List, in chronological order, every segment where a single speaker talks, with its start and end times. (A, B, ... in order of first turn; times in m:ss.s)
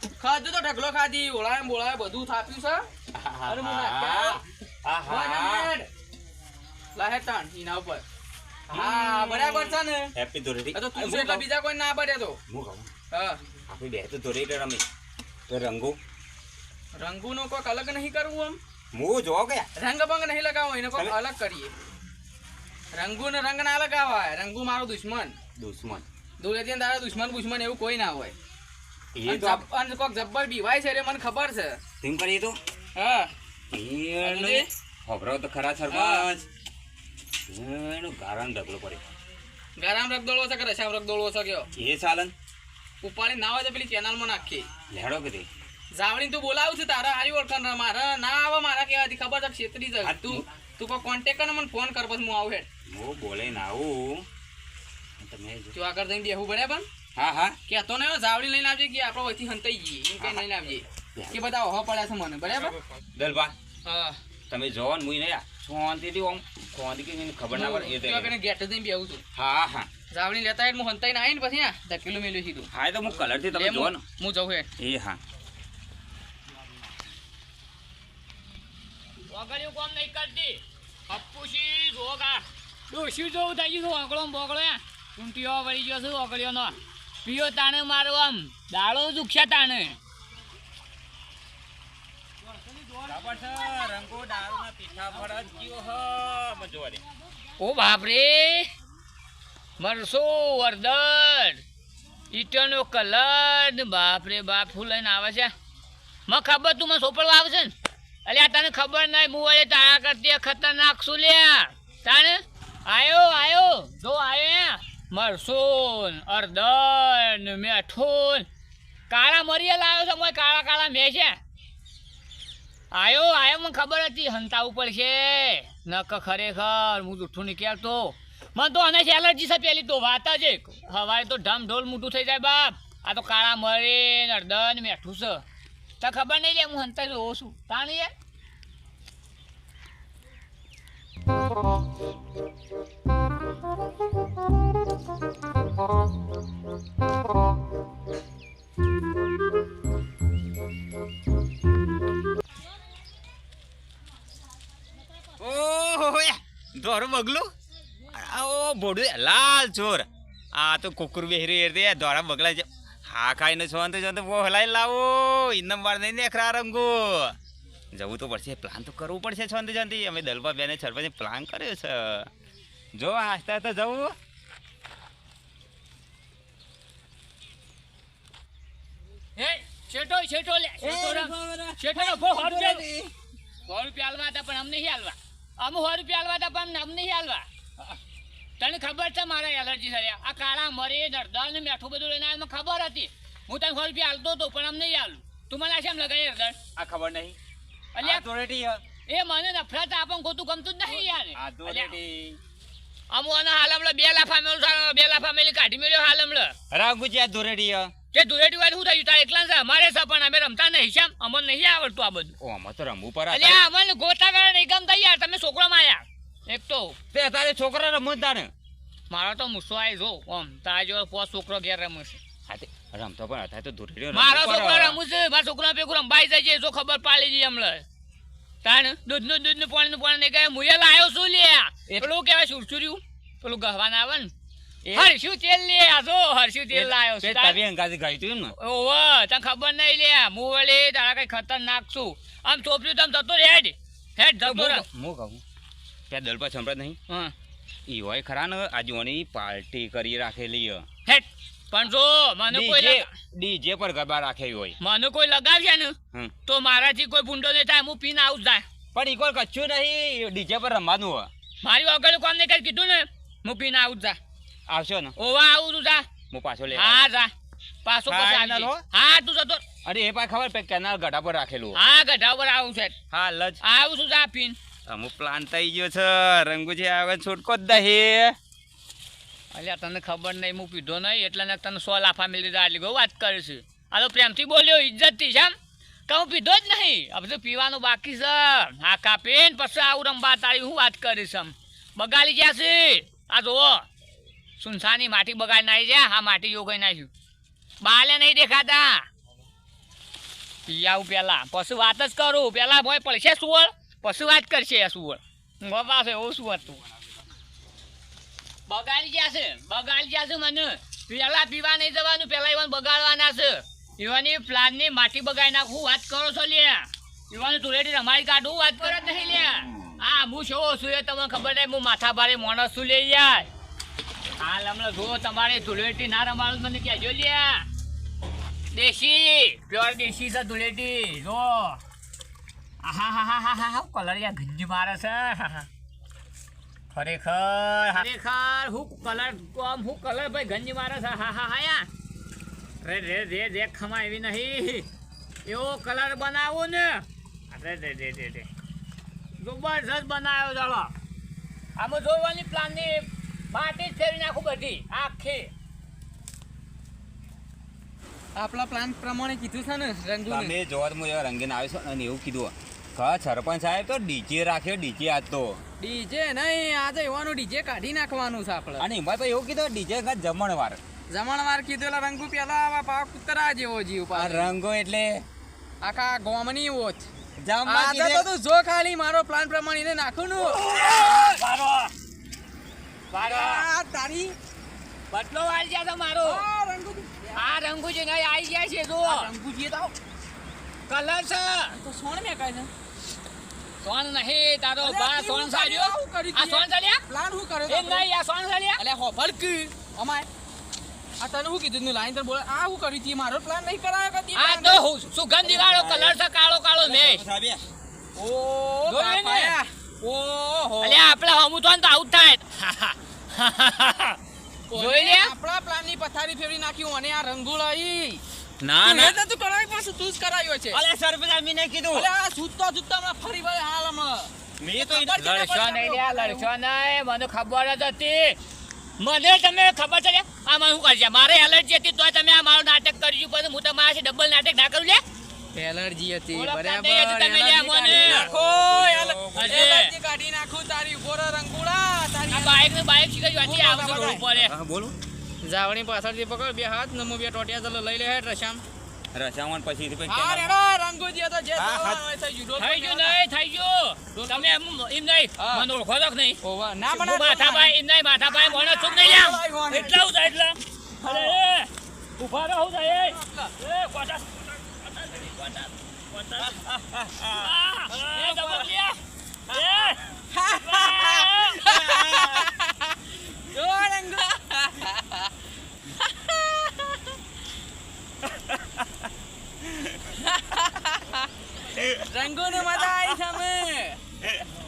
0:00.2-0:02.9 A
0:03.1-0:05.7 B
0:03.4-0:04.4 A
0:05.1-0:05.9 A
0:06.9-0:08.0 A
0:08.7-0:10.1 A
0:08.7-0:11.4 B
0:10.7-0:12.4 A
0:12.5-0:12.9 B
0:13.1-0:13.4 A
0:13.7-0:14.8 B
0:15.5-0:16.0 B
0:16.9-0:18.6 A
0:18.9-0:19.7 B
0:19.8-0:21.7 A
0:22.9-0:25.4 A
0:25.6-0:26.0 B
0:26.4-0:28.3 A
0:29.1-0:29.6 B
0:29.2-0:31.8 A
0:32.0-0:32.6 B
0:32.9-0:33.3 A
0:33.7-0:36.4 B
0:34.2-0:34.7 A
0:35.9-0:36.3 A
0:37.5-0:39.0 B
0:39.8-0:41.7 A
0:41.8-0:42.3 B
0:43.0-0:44.7 A
0:44.9-0:45.5 B
0:45.9-0:52.7 A
0:50.0-0:50.4 B
0:52.9-0:54.2 B
0:55.2-0:55.8 B
0:55.7-0:56.8 A
0:57.2-0:57.6 B
0:57.7-1:02.8 A
1:03.1-1:03.5 B
1:03.8-1:04.2 A
1:04.5-1:08.3 B
1:07.5-1:09.2 A
1:09.3-1:09.9 B
1:10.1-1:12.7 A
1:12.7-1:14.0 B
1:13.5-1:14.7 A
1:14.8-1:15.2 B
1:19.3-1:30.0 C
1:33.0-1:37.0 B
1:37.6-1:38.7 C
1:39.8-1:41.6 C
1:42.3-1:45.5 C
1:46.3-1:47.7 C
1:48.2-1:58.5 C
1:59.1-2:01.4 C
2:02.9-2:15.4 C
2:16.0-2:18.1 C
2:35.4-2:37.5 B
2:38.0-2:47.4 B
2:47.9-2:52.3 B
2:52.9-2:54.1 B
2:59.4-3:02.8 C
3:00.8-3:03.1 B
3:03.6-3:07.4 C
3:08.6-3:16.6 C
3:16.8-3:17.4 B
3:17.9-3:18.3 C
3:18.0-3:18.8 B
3:19.1-3:22.0 C
3:20.9-3:22.4 B
3:23.1-3:26.5 C
3:26.7-3:27.9 B
3:28.1-3:32.4 C
3:32.4-3:33.6 B
3:33.3-3:37.0 C
3:37.1-3:38.5 B
3:39.1-3:42.2 C
3:42.5-3:45.0 B
3:44.1-3:47.8 C
3:48.6-3:54.3 C
3:54.9-3:57.6 C
3:56.7-3:58.5 B
3:58.6-4:04.8 C
4:04.4-4:05.4 B
4:06.1-4:07.0 B
4:07.9-4:10.8 B
4:11.0-4:13.1 C
4:12.5-4:14.8 B
4:14.8-4:18.6 C
4:18.9-4:21.3 B
4:21.6-4:24.2 C
4:24.7-4:25.1 B
4:25.2-4:26.1 C
4:26.3-4:27.1 B
4:26.7-4:27.3 C
4:27.8-4:29.6 C
4:28.1-4:28.8 B
4:29.8-4:31.8 B
4:31.7-4:33.0 C
4:33.1-4:33.6 B
4:33.6-4:34.6 C
4:34.9-4:38.4 B
4:39.5-4:45.5 C
4:46.1-4:53.9 C
4:54.6-4:57.1 C
4:57.8-4:59.0 C
5:00.7-5:06.8 C
5:08.7-5:23.5 C
5:24.4-5:27.6 C
5:28.7-5:31.8 C
5:32.8-5:35.7 C
5:36.9-5:41.9 C
5:42.8-5:44.9 C
5:45.4-5:48.5 C
5:49.4-5:50.9 C
5:51.8-5:55.5 C
5:58.3-6:00.5 A
6:00.3-6:05.6 B
6:05.8-6:08.8 A
6:08.8-6:10.8 B
6:11.1-6:14.5 A
6:14.1-6:15.2 B
6:15.8-6:17.1 A
6:17.4-6:18.3 B
6:17.6-6:21.0 A
6:20.5-6:21.9 C
6:23.1-6:23.6 C
6:23.1-6:24.4 A
6:25.1-6:26.4 C
6:26.2-6:27.4 A
6:27.4-6:29.3 C
6:29.0-6:29.9 A
6:30.9-6:31.8 C
6:31.7-6:32.7 A
6:33.8-6:37.0 C
6:34.8-6:38.1 A
6:37.7-6:38.8 C
6:38.8-6:40.3 A
6:41.2-6:44.8 A
6:44.3-6:47.2 C
6:45.4-6:46.2 B
6:46.8-6:47.6 B
6:48.2-6:51.0 A
6:48.9-6:49.6 C
6:50.8-6:54.2 C
6:54.7-6:58.2 A
6:54.7-6:55.3 C
6:58.6-6:59.2 B
6:58.8-7:00.8 A
7:00.7-7:02.1 B
7:01.9-7:06.5 A
7:04.6-7:05.3 B
7:05.2-7:08.4 C
7:09.0-7:15.0 C
7:15.5-7:22.7 A
7:16.3-7:18.3 C
7:17.9-7:19.6 B
7:19.3-7:19.9 C
7:22.3-7:24.5 C
7:23.4-7:24.2 A
7:24.4-7:24.9 B
7:25.4-7:28.6 A
7:29.1-7:30.5 B
7:30.1-7:33.2 A
7:31.6-7:32.0 B
7:32.6-7:36.4 C
7:34.1-7:34.5 A
7:35.4-7:35.6 A
7:36.4-7:37.7 A
7:36.9-7:46.6 C
7:38.3-7:40.0 A
7:41.0-7:41.4 A
7:42.9-7:43.5 A
7:46.4-7:47.4 B
7:47.2-7:49.0 C
7:47.9-7:48.7 A
7:49.5-7:51.7 C
7:50.3-7:53.0 A
7:51.6-7:52.5 B
7:53.5-7:55.3 A
7:56.0-7:57.1 A
7:58.3-7:58.8 B
7:59.6-8:00.0 B
8:00.2-8:01.2 A
8:01.7-8:03.2 B
8:02.0-8:04.0 A